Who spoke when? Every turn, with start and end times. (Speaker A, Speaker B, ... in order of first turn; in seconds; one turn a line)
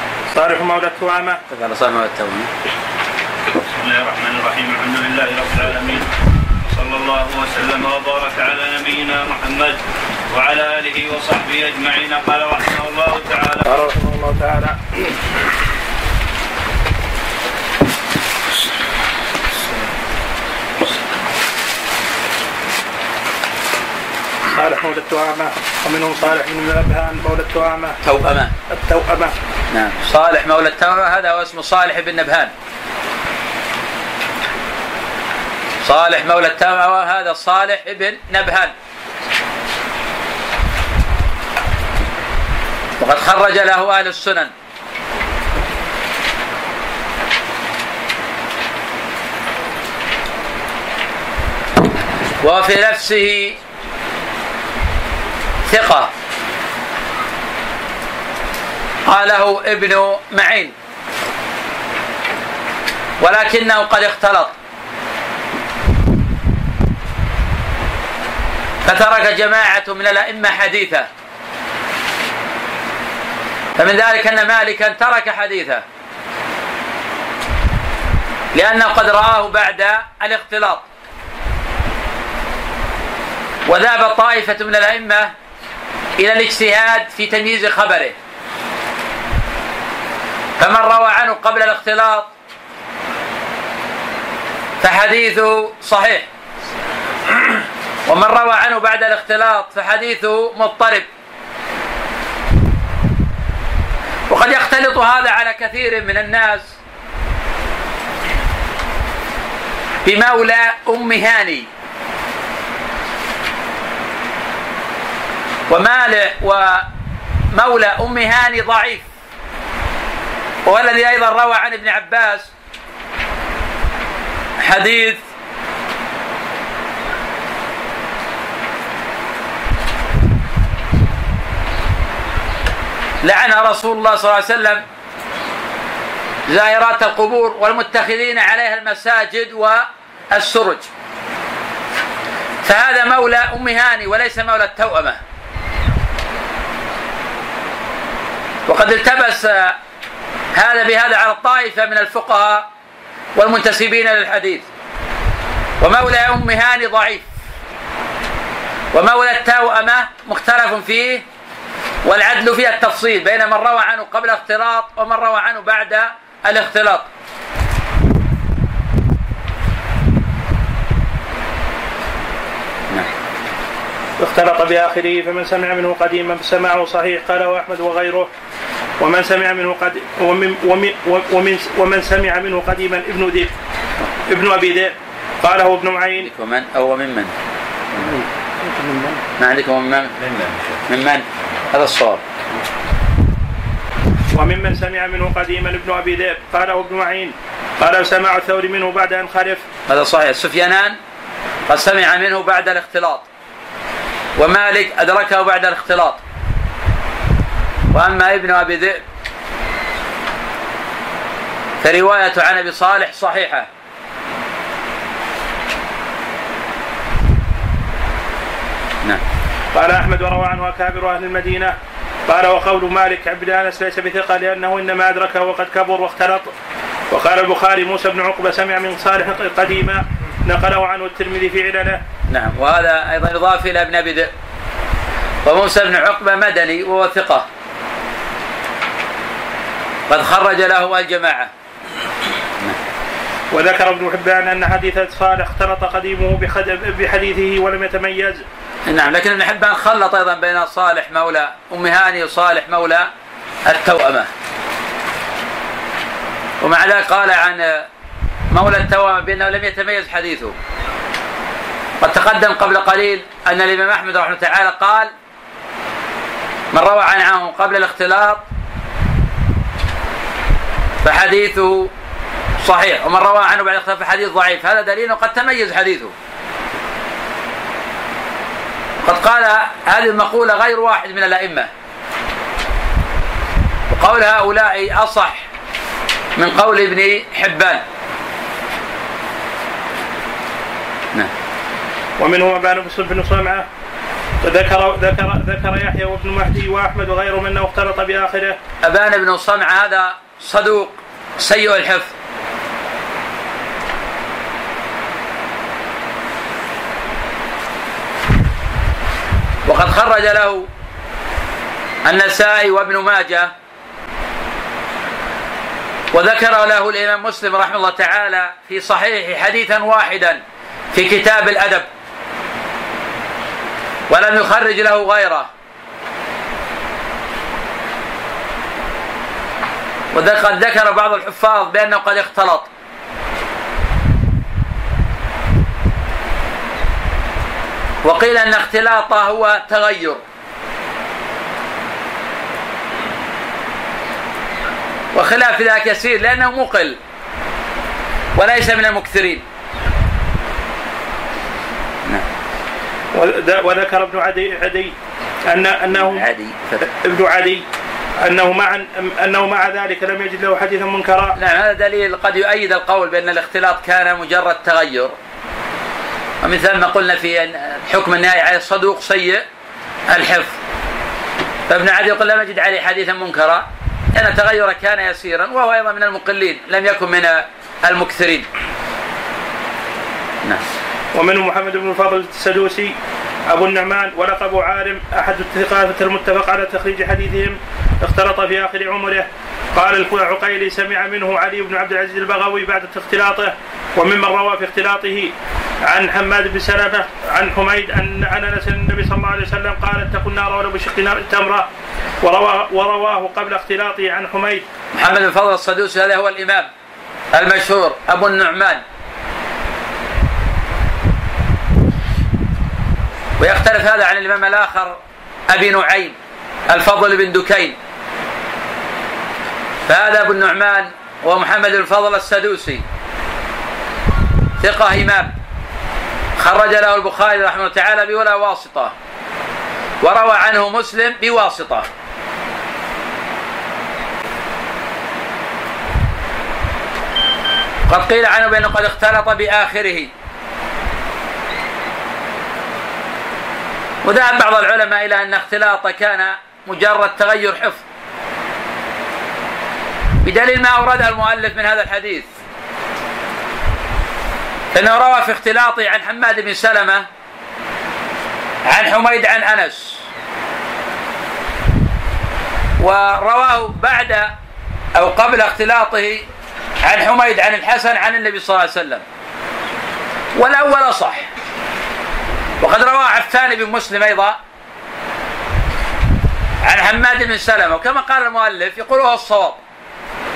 Speaker A: 0.3-1.4
Speaker B: 1.5-2.5
Speaker C: 3.8-6.1
Speaker C: 6.7-13.7
Speaker A: 13.6-15.0
Speaker A: 24.5-28.0
Speaker B: 28.0-28.5
Speaker A: 28.7-29.3
Speaker B: 29.7-32.5
Speaker B: 35.8-38.7
Speaker B: 43.0-44.5
Speaker B: 52.4-53.6
Speaker B: 55.7-56.1
Speaker B: 59.1-60.7
Speaker B: 63.2-64.5
Speaker B: 68.8-71.1
Speaker B: 73.8-75.8
Speaker B: 78.5-80.8
Speaker B: 83.7-85.3
Speaker B: 86.2-88.2
Speaker B: 90.6-92.3
Speaker B: 94.8-96.3
Speaker B: 97.4-101.1
Speaker B: 104.3-106.7
Speaker B: 110.0-111.7
Speaker B: 115.7-116.9
Speaker B: 117.5-119.1
Speaker B: 120.7-122.5
Speaker B: 124.6-125.2
Speaker B: 133.2-134.8
Speaker B: 136.5-140.9
Speaker B: 142.6-145.2
Speaker B: 148.7-149.8
Speaker B: 150.6-152.7
Speaker B: 153.4-154.6
Speaker B: 155.8-157.3
Speaker B: 158.9-161.2
Speaker B: 162.0-167.1
Speaker A: 174.2-178.3
Speaker A: 179.0-183.5
Speaker A: 184.3-186.3
Speaker B: 186.2-187.3
Speaker A: 188.1-189.2
Speaker B: 189.4-192.2
Speaker A: 194.3-199.6
Speaker B: 199.9-201.0
Speaker B: 201.7-203.3
Speaker B: 204.4-206.2
Speaker B: 207.9-209.0
Speaker B: 211.8-213.7
Speaker A: 219.7-221.8
Speaker A: 222.3-226.5
Speaker A: 227.1-232.0
Speaker B: 232.3-234.3
Speaker B: 235.4-237.5
Speaker B: 240.1-241.5
Speaker A: 243.5-248.4
Speaker B: 248.9-253.1
Speaker B: 253.7-254.3
Speaker B: 256.6-257.9
Speaker B: 258.5-260.6
Speaker B: 262.0-265.1
Speaker B: 266.7-268.4
Speaker B: 271.0-271.9
Speaker B: 272.6-276.1
Speaker B: 279.0-281.7
Speaker B: 283.9-285.5
Speaker B: 286.4-287.8
Speaker A: 292.2-293.7
Speaker A: 294.4-298.6
Speaker B: 298.8-302.1
Speaker B: 309.6-310.7
Speaker B: 312.1-313.5
Speaker B: 316.1-320.4
Speaker B: 320.9-321.9
Speaker B: 324.1-325.5
Speaker B: 330.1-332.7
Speaker B: 338.0-340.2
Speaker B: 345.1-347.0
Speaker B: 348.4-349.4
Speaker A: 353.1-354.9
Speaker A: 355.5-356.3
Speaker B: 355.9-356.8
Speaker A: 356.8-357.6
Speaker A: 358.2-361.4
Speaker B: 361.4-365.1
Speaker B: 366.4-369.4
Speaker B: 370.1-370.6
Speaker B: 371.7-378.5
Speaker A: 381.1-382.9
Speaker A: 383.5-395.3
Speaker A: 395.9-401.7
Speaker A: 402.2-404.6
Speaker B: 404.9-406.7
Speaker B: 407.3-408.8
Speaker B: 413.4-416.2
Speaker B: 416.7-417.8
Speaker B: 419.9-422.8
Speaker B: 424.6-425.3
Speaker B: 426.4-428.9
Speaker B: 430.0-431.9
Speaker B: 437.9-440.1
Speaker B: 444.0-447.8
Speaker B: 450.2-452.3
Speaker B: 454.7-457.1
Speaker B: 458.7-460.0
Speaker B: 462.8-464.3
Speaker B: 465.0-466.2
Speaker B: 466.8-469.0
Speaker B: 470.4-471.3
Speaker B: 472.6-474.4
Speaker B: 476.6-479.6